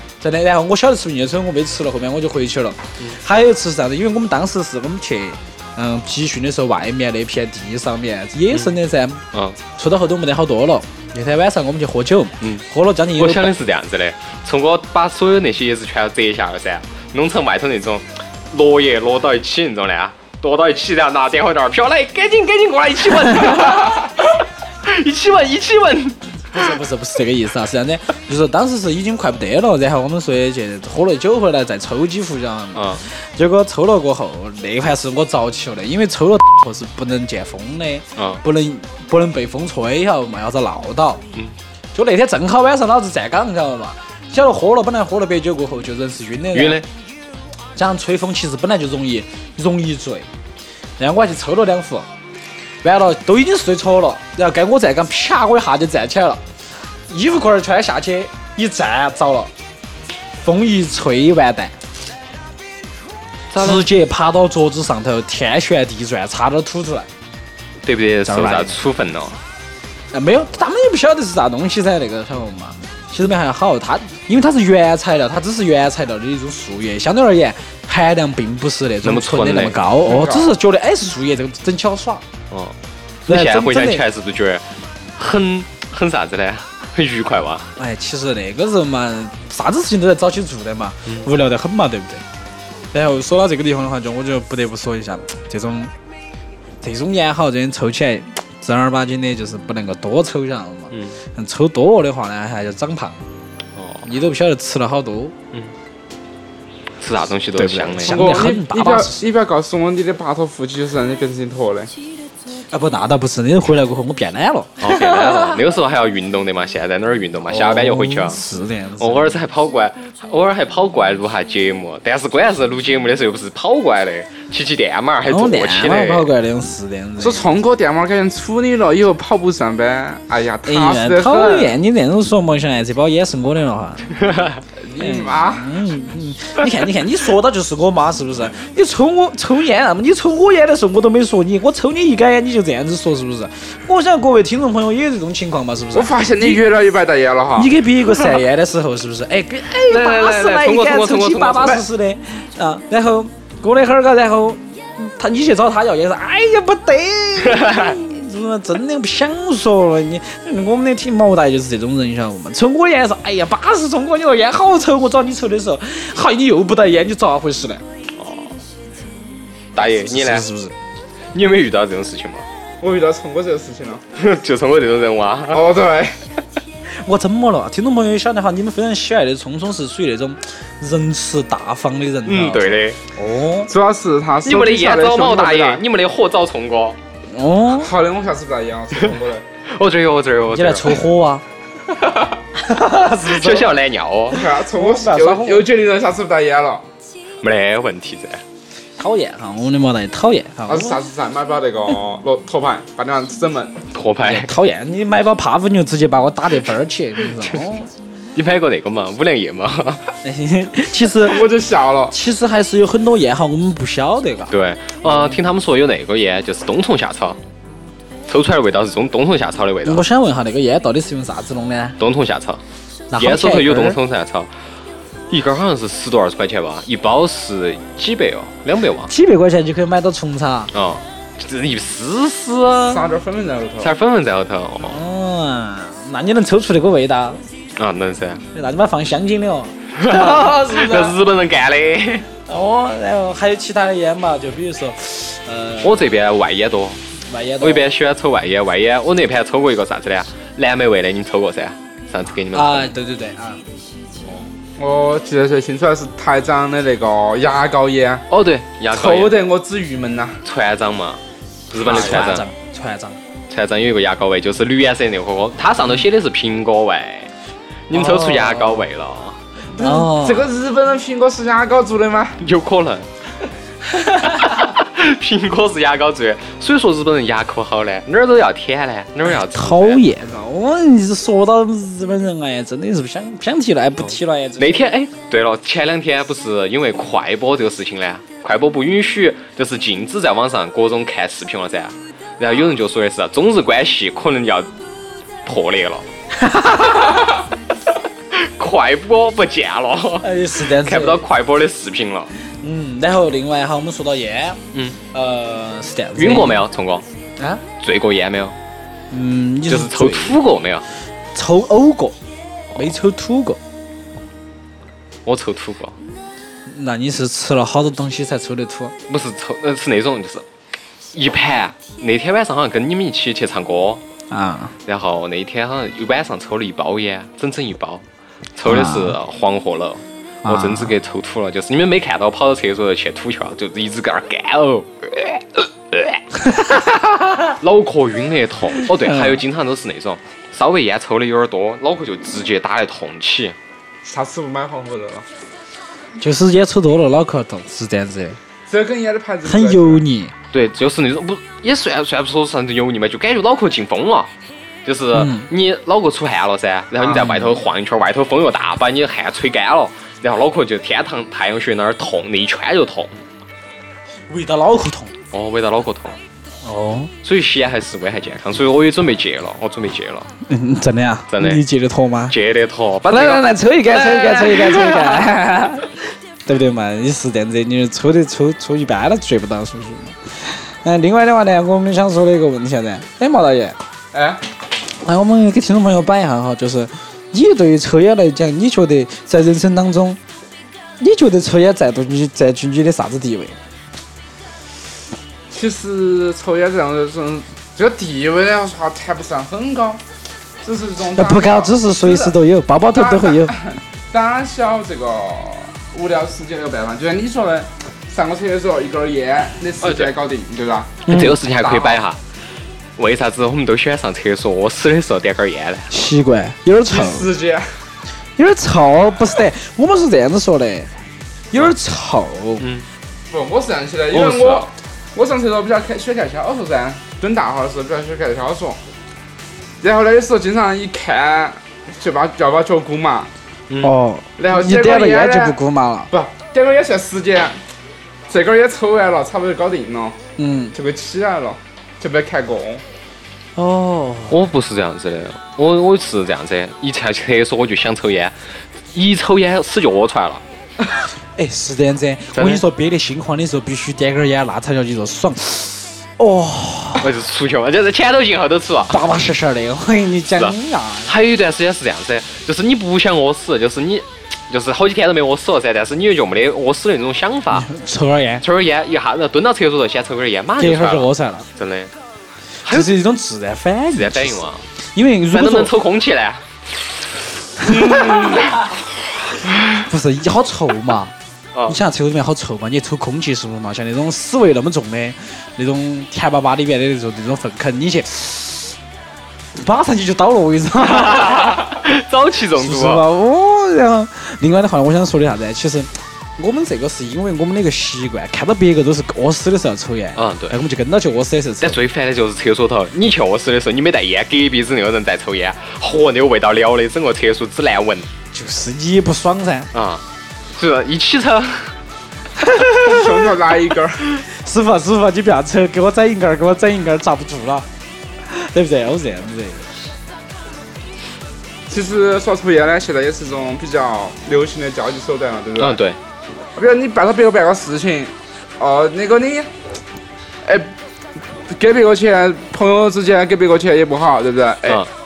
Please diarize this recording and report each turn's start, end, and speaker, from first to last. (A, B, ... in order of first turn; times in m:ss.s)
0:00.2-0:09.2 A
0:09.3-0:09.6 B
0:09.8-0:13.6 A
0:13.2-0:26.7 B
0:23.3-0:23.8 A
0:26.5-0:41.2 A
0:32.7-0:33.0 B
0:38.2-0:38.4 B
0:41.9-0:46.8 A
0:46.5-0:46.9 B
0:47.8-0:50.3 A
0:51.0-0:52.1 A
0:52.8-0:56.4 A
0:57.1-0:59.5 A
1:00.4-1:01.8 A
1:03.5-1:03.8 B
1:03.6-1:07.1 A
1:07.8-1:09.4 B
1:08.2-1:08.8 A
1:10.1-1:22.2 A
1:19.0-1:19.9 B
1:20.0-1:20.5 C
1:23.2-1:24.6 B
1:23.3-1:24.0 A
1:25.2-1:27.7 B
1:27.8-1:32.2 A
1:32.9-1:35.9 A
1:36.8-1:43.2 A
1:40.9-1:41.2 B
1:43.8-1:44.1 B
1:44.0-1:45.3 A
1:47.0-1:48.4 B
1:47.6-1:49.2 A
1:48.0-1:51.9 C
1:52.7-1:55.5 A
1:54.8-1:58.4 B
1:57.5-1:59.4 A
1:59.0-2:06.3 B
2:05.2-2:07.4 A
2:07.2-2:11.8 C
2:10.6-2:14.1 A
2:14.2-2:14.6 B
2:14.8-2:15.7 C
2:15.0-2:26.6 A
2:25.9-2:27.7 C
2:27.6-2:47.8 A
2:29.8-2:31.8 B
2:37.4-2:37.9 B
2:48.2-2:48.6 B
2:49.7-2:50.4 B
2:50.0-2:50.7 A
2:51.3-2:52.4 B
2:52.8-2:54.0 C
2:54.2-2:55.7 B
2:55.5-2:56.2 C
2:57.0-3:03.7 A
3:02.2-3:03.0 B
3:03.7-3:05.8 C
3:04.4-3:07.0 B
3:07.3-3:07.9 A
3:07.7-3:09.4 C
3:09.7-3:11.0 B
3:10.5-3:11.4 A
3:12.5-3:13.7 A
3:13.2-3:14.4 B
3:14.3-3:16.8 C
3:14.3-3:15.7 A
3:17.4-3:18.4 B
3:19.0-3:21.0 A
3:20.7-3:23.8 C
3:23.9-3:24.5 B
3:24.2-3:27.9 A
3:28.3-3:30.1 B
3:30.2-3:31.4 A
3:31.2-3:32.2 C
3:32.1-3:35.4 A
3:34.5-3:37.4 B
3:38.3-3:40.0 B
3:39.8-3:42.0 A
3:42.0-3:42.6 B
3:43.1-3:44.0 A
3:43.2-3:44.5 B
3:45.3-3:49.1 B
3:49.1-3:50.7 A
3:50.7-3:53.1 B
3:52.8-3:54.0 C
3:53.8-3:55.0 B
3:54.8-3:57.4 A
3:57.8-3:58.4 B
3:58.5-4:01.2 A
4:00.0-4:02.3 B
4:02.5-4:06.1 A
4:05.8-4:07.0 B
4:07.3-4:07.9 A
4:07.6-4:12.9 B
4:12.5-4:13.6 A
4:14.8-4:18.2 C
4:18.3-4:19.4 B
4:18.9-4:20.4 C
4:20.4-4:22.5 B
4:21.7-4:23.2 A
4:23.5-4:27.3 B
4:27.9-4:29.4 B
4:27.9-4:28.9 A
4:29.8-4:30.5 A
4:29.8-4:32.4 C
4:32.4-4:33.1 B
4:33.9-4:34.5 A
4:34.1-4:40.0 B
4:39.2-4:44.8 A
4:44.6-4:54.7 B
4:55.4-4:56.1 B
4:56.3-4:57.3 A
4:58.3-5:02.3 B
5:00.2-5:01.2 A
5:02.4-5:04.6 A
5:04.7-5:05.0 B
5:05.1-5:06.6 A
5:06.2-5:07.0 B
5:07.8-5:08.6 B
5:09.1-5:10.4 A
5:09.7-5:10.8 B
5:11.3-5:12.2 A
5:12.8-5:13.6 A
5:15.2-5:16.0 B
5:16.7-5:18.9 A
5:19.1-5:20.4 B
5:21.1-5:24.0 B
5:24.3-5:24.7 A
5:24.8-5:28.0 B
5:28.6-5:36.2 B
5:28.6-5:29.2 A
5:30.4-5:30.9 A
5:36.5-5:37.5 A
5:37.6-5:43.5 B
5:38.8-5:39.4 A
5:44.0-5:45.3 C
5:46.2-5:48.4 A
5:48.7-5:50.0 C
5:49.4-5:50.3 A
5:50.5-5:54.3 B
5:54.8-6:03.1 B
5:55.1-5:55.5 A
5:57.0-5:57.6 A
6:04.3-6:05.1 A
6:05.3-6:06.2 B
6:06.6-6:07.1 A
6:07.2-6:10.3 B
6:10.4-6:12.3 A
6:11.3-6:11.6 B
6:12.3-6:15.3 B
6:13.1-6:23.8 A
6:24.1-6:24.4 C
6:25.0-6:30.2 A
6:31.0-6:33.6 A
6:35.5-6:40.0 C
6:40.6-6:52.0 C
6:41.1-6:43.5 A
6:49.8-6:50.1 B
6:51.1-6:51.4 A
6:51.1-6:52.2 B
6:53.0-6:55.9 B
6:55.9-6:57.3 A
6:56.9-6:57.7 C
6:58.4-7:00.9 A
7:01.5-7:02.6 A
7:02.6-7:02.8 B
7:03.3-7:08.8 C
7:04.1-7:04.7 B
7:09.8-7:13.3 C
7:13.7-7:13.9 B
7:13.8-7:16.1 A
7:14.4-7:15.6 C
7:16.1-7:17.6 C
7:18.3-7:20.2 C
7:20.4-7:20.7 A
7:20.7-7:22.8 C
7:23.6-7:24.4 A
7:24.3-7:30.4 B
7:31.4-7:37.0 A
7:32.3-7:32.6 B
7:37.0-7:39.0 B
7:38.9-7:41.1 A
7:41.0-7:47.7 B
7:47.5-7:48.4 A
7:48.4-7:51.9 B
7:50.6-7:51.5 A
7:52.6-7:52.9 B
7:52.6-7:55.7 A
7:53.9-7:54.6 B
7:55.3-7:56.9 B
7:57.6-7:58.6 A
7:57.6-7:58.6 B
7:59.8-8:01.1 A
8:01.7-8:08.7 A
8:09.6-8:11.8 A
8:10.8-8:13.0 B
8:12.6-8:21.8 A
8:20.2-8:20.6 B
8:21.6-8:28.1 B
8:28.3-8:29.7 A
8:29.7-8:30.0 B
8:30.6-8:31.8 B
8:32.4-8:33.2 A
8:32.8-8:34.2 C
8:34.3-8:37.7 A
8:38.2-8:39.6 A
8:41.7-8:45.8 C
8:45.6-8:46.0 B
8:46.6-8:49.5 C
8:50.4-8:50.7 C
8:51.4-8:54.9 C